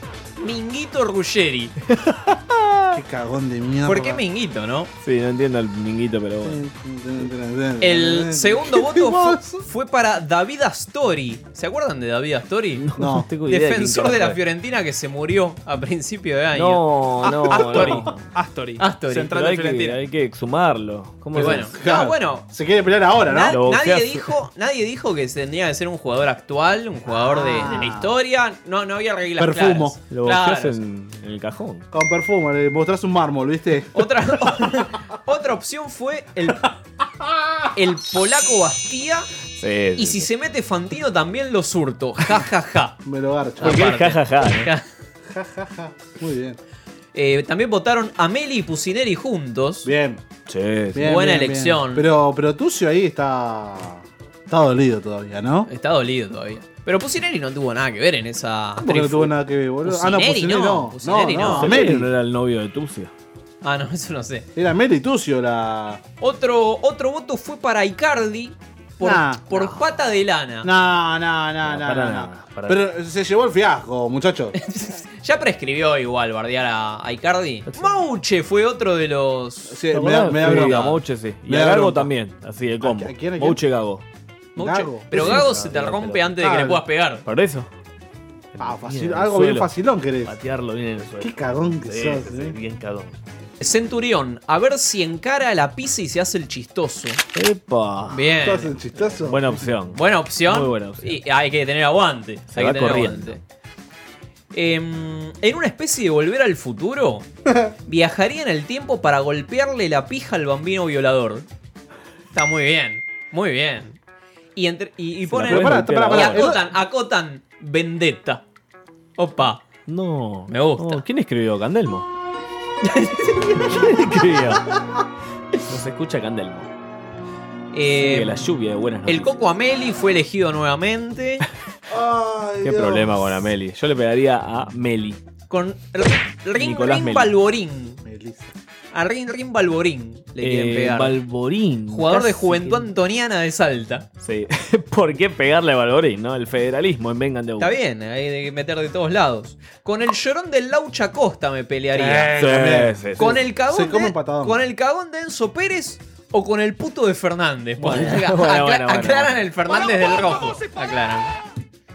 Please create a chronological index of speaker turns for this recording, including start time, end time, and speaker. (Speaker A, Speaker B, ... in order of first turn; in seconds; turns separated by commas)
Speaker A: 0.4-1.8, Speaker B: 2.9-4.2, Speaker A: 3.9-4.9, Speaker C: 5.0-6.6, Speaker B: 6.4-9.7, Speaker A: 7.8-12.8, Speaker C: 12.8-14.4, Speaker B: 13.0-13.3, Speaker A: 13.5-18.1, Speaker C: 16.5-18.2, Speaker D: 17.2-19.9, Speaker A: 18.8-19.9, Speaker C: 19.1-21.7, Speaker A: 21.4-22.5, Speaker B: 21.4-23.6, Speaker A: 23.3-30.8, Speaker C: 23.5-24.3, Speaker B: 27.1-28.1, Speaker B: 29.4-30.0, Speaker C: 30.1-31.9, Speaker B: 31.9-34.0, Speaker A: 33.9-36.7, Speaker A: 37.8-39.3, Speaker C: 39.6-40.3, Speaker A: 40.0-43.0, Speaker B: 43.0-43.9, Speaker A: 43.6-44.9, Speaker C: 43.6-44.7, Speaker B: 45.3-46.6, Speaker A: 47.1-49.9, Speaker B: 49.8-50.2, Speaker C: 50.5-51.1, Speaker B: 50.9-55.7, Speaker A: 51.0-52.1, Speaker A: 55.7-61.8, Speaker B: 58.8-62.1, Speaker C: 61.4-63.1, Speaker A: 63.6-64.5, Speaker B: 64.5-66.0, Speaker A: 66.2-70.7, Speaker B: 69.0-69.5, Speaker B: 70.6-74.5, Speaker C: 71.7-72.8, Speaker A: 74.5-79.8, Speaker C: 77.7-78.0, Speaker B: 79.7-80.9, Speaker C: 79.9-84.0, Speaker A: 80.4-81.0, Speaker B: 81.5-82.1, Speaker B: 82.8-83.6, Speaker B: 84.6-85.6, Speaker A: 84.6-87.2, Speaker C: 85.1-86.4, Speaker B: 86.4-86.8, Speaker C: 87.2-87.7, Speaker C: 88.5-89.7, Speaker B: 88.6-90.4, Speaker C: 90.2-93.2, Speaker B: 91.2-92.6, Speaker A: 93.6-97.2, Speaker C: 97.3-98.4, Speaker A: 98.1-98.7, Speaker B: 98.4-99.7, Speaker C: 98.9-101.2, Speaker A: 100.0-103.4, Speaker C: 102.5-103.4, Speaker A: 104.5-107.3, Speaker A: 107.9-111.5, Speaker A: 112.3-114.0, Speaker A: 114.5-118.4, Speaker C: 115.3-116.5, Speaker B: 115.4-116.6, Speaker A: 119.2-119.6, Speaker C: 119.9-122.1, Speaker A: 120.5-121.0, Speaker A: 122.8-123.8, Speaker C: 123.6-124.7, Speaker C: 125.6-126.7, Speaker A: 127.7-128.5, Speaker C: 127.9-129.4, Speaker A: 129.1-131.4, Speaker B: 131.9-133.2, Speaker C: 132.6-135.2, Speaker A: 135.5-138.0, Speaker C: 136.6-137.3, Speaker B: 138.0-138.5, Speaker A: 138.9-141.2, Speaker C: 140.4-142.9, Speaker A: 141.9-144.1, Speaker C: 144.2-147.8, Speaker A: 147.6-152.4, Speaker B: 151.9-154.6, Speaker C: 152.4-153.4, Speaker A: 153.2-161.3, Speaker C: 157.8-159.5